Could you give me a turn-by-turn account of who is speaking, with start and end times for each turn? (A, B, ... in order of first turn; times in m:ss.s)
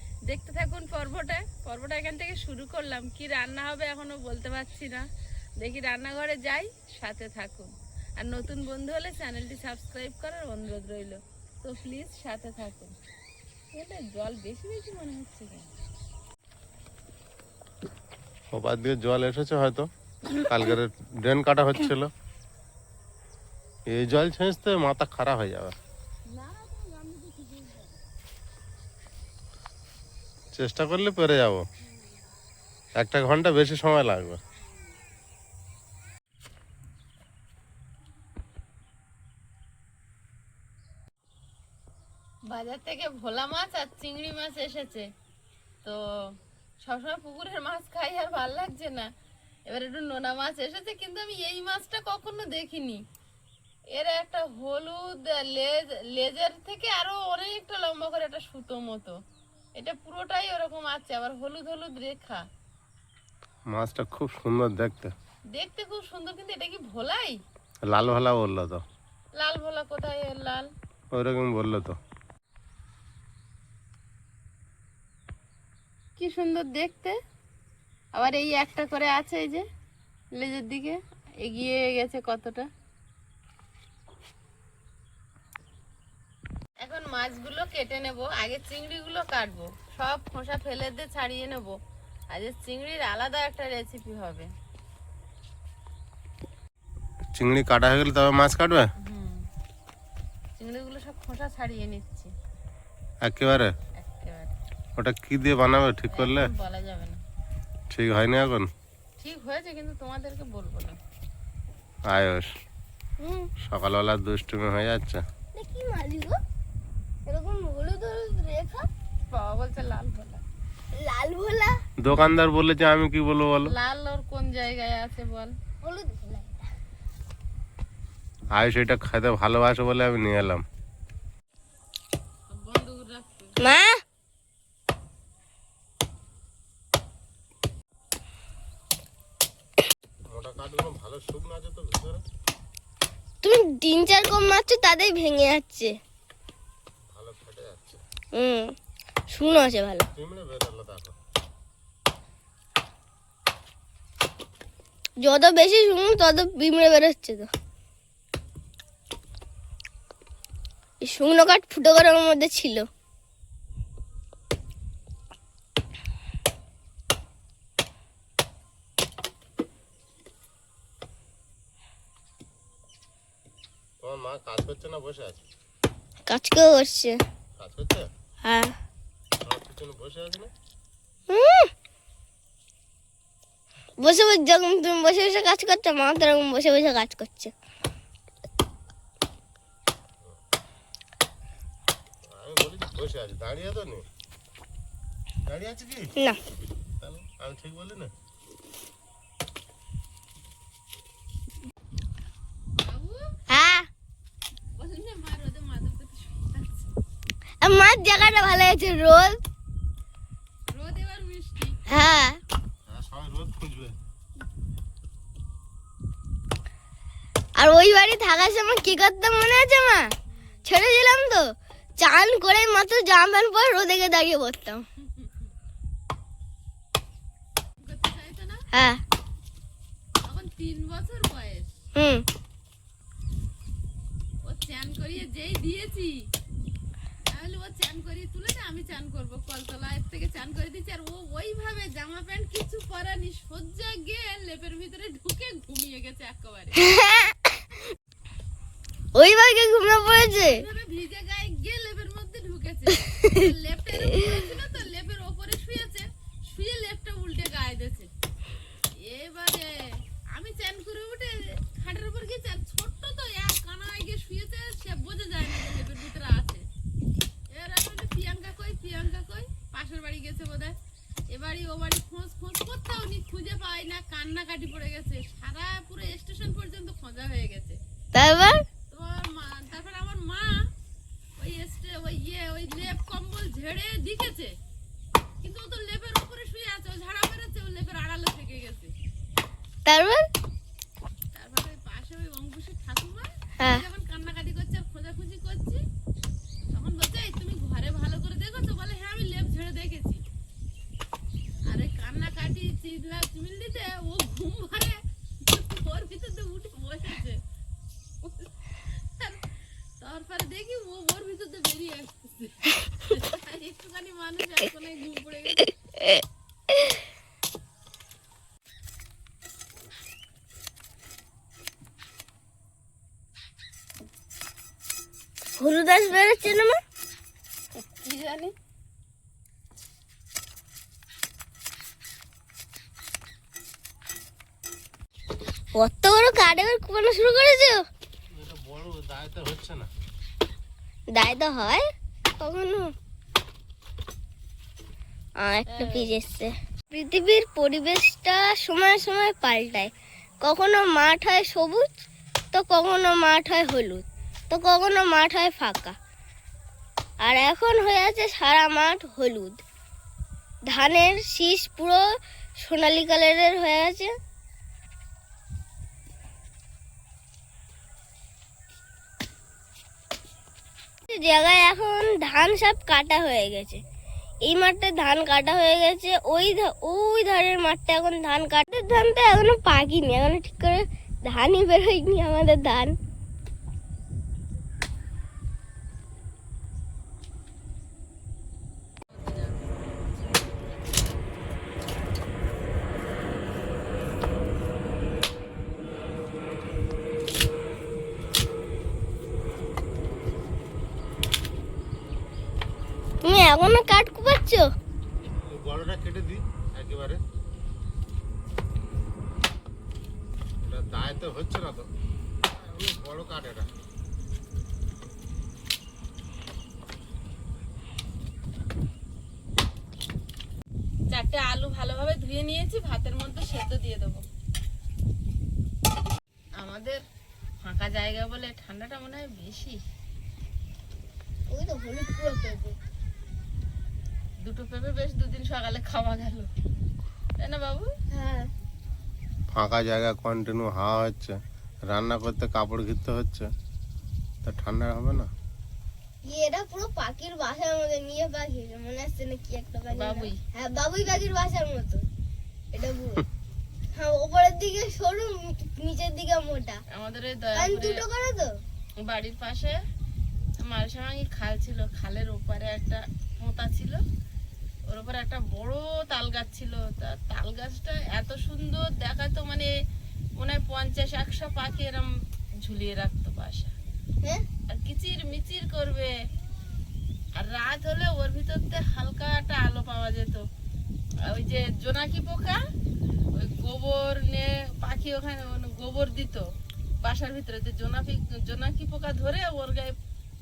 0:00.2-0:05.0 A
0:05.6-0:12.9 A
0:13.7-0:15.7 A
0:18.5-0:22.1 B
0:23.9-0:25.8 B
0:26.3-0:28.0 A
0:30.5-0:31.6 B
0:33.0-0:34.4 B
0:42.5-0:45.1 A
0:45.8-0:49.1 A
0:49.7-0:53.0 A
0:53.9-0:59.2 A
0:59.8-1:02.4 A
1:03.7-1:05.1 B
1:05.5-1:07.4 A
1:07.9-1:08.8 B
1:09.4-1:10.7 A
1:11.1-1:12.0 B
1:16.2-1:17.2 A
1:18.2-1:19.7 A
1:20.3-1:22.7 A
1:26.8-1:31.8 A
1:32.3-1:34.5 A
1:37.3-1:38.9 B
1:39.0-1:39.5 A
1:40.6-1:42.3 A
1:43.2-1:43.7 B
1:44.0-1:44.5 A
1:45.0-1:46.5 B
1:46.1-1:47.2 A
1:47.9-1:48.7 B
1:49.2-1:51.0 A
1:52.1-1:52.5 B
1:53.2-1:53.5 C
1:53.6-1:55.2 B
1:55.5-1:56.4 C
1:57.3-1:58.9 C
1:59.3-2:00.4 A
2:00.9-2:01.8 C
2:02.0-2:03.7 B
2:03.6-2:05.6 A
2:05.8-2:06.6 C
2:08.5-2:10.6 B
2:12.5-2:13.6 A
2:13.6-2:14.0 C
2:20.3-2:22.2 B
2:23.4-2:26.0 C
2:27.1-2:28.0 B
2:28.3-2:28.7 C
2:29.3-2:30.1 C
2:30.1-2:31.2 B
2:35.2-2:37.5 C
2:41.0-2:42.8 C
2:54.0-2:55.4 B
2:56.3-2:57.2 C
2:57.6-2:58.1 B
2:58.4-2:58.7 C
2:59.4-3:00.5 B
3:01.3-3:01.7 C
3:04.0-3:07.5 C
3:12.2-3:14.0 B
3:15.4-3:16.1 B
3:17.0-3:18.1 B
3:22.8-3:23.3 A
3:23.5-3:23.9 C
3:24.8-3:26.9 A
3:27.6-3:29.4 C
3:30.7-3:31.8 A
3:31.9-3:32.4 C
3:32.8-3:34.0 B
3:37.6-3:44.8 C
3:47.8-3:48.6 A
3:48.7-3:49.0 C
3:50.2-3:51.7 A
3:52.0-3:52.2 C
3:54.4-3:56.2 A
3:57.3-4:06.8 A
4:06.8-4:07.6 C
4:09.2-4:10.6 C
4:10.4-4:18.1 A
4:14.0-4:14.5 C
4:19.0-4:19.8 A
4:20.3-4:26.7 A
4:27.5-4:30.8 A
4:31.3-4:37.8 A
4:38.1-4:38.6 C
4:38.9-4:40.7 A
4:41.4-4:44.5 A
4:45.4-4:48.9 A
4:49.9-4:50.2 C
4:51.4-4:55.8 A
4:56.7-5:00.2 A
5:01.7-5:07.4 A
5:08.2-5:09.4 A
5:10.0-5:15.7 A
5:16.7-5:17.0 C
5:25.6-5:26.8 C
5:27.8-5:28.5 A
5:35.7-5:37.9 C
5:38.3-5:39.9 B
5:41.1-5:41.8 C
5:42.4-5:42.9 C
5:45.4-5:52.0 C
5:45.7-5:46.2 A
5:52.5-5:56.0 C
5:57.2-5:59.6 C
6:00.7-6:04.2 C
6:11.1-6:13.8 C
6:14.4-6:23.0 C
6:29.2-6:29.6 A
6:43.2-6:44.7 C
6:45.2-6:47.2 B
6:50.6-6:51.9 B
6:52.5-6:53.7 B
7:01.1-7:04.2 A
7:06.6-7:07.0 A
7:07.6-7:09.8 A
7:11.5-7:12.8 C
7:14.4-7:16.5 A
7:17.4-7:17.9 A
7:18.1-7:18.5 C
7:19.5-7:21.4 B
7:21.9-7:23.5 B
7:24.4-7:25.3 B
7:26.2-7:32.1 C
7:29.9-7:30.4 A
7:32.7-7:33.2 C
7:33.9-7:36.8 C
7:36.9-7:38.0 A
7:37.6-7:38.6 C
7:39.0-7:39.8 A
7:40.6-7:44.0 A
7:44.9-7:49.7 A
7:50.4-7:52.1 A
7:52.6-7:53.7 A
7:54.7-7:56.1 A
7:57.4-8:00.4 A
8:01.2-8:02.6 A
8:03.3-8:06.5 A
8:07.0-8:10.0 A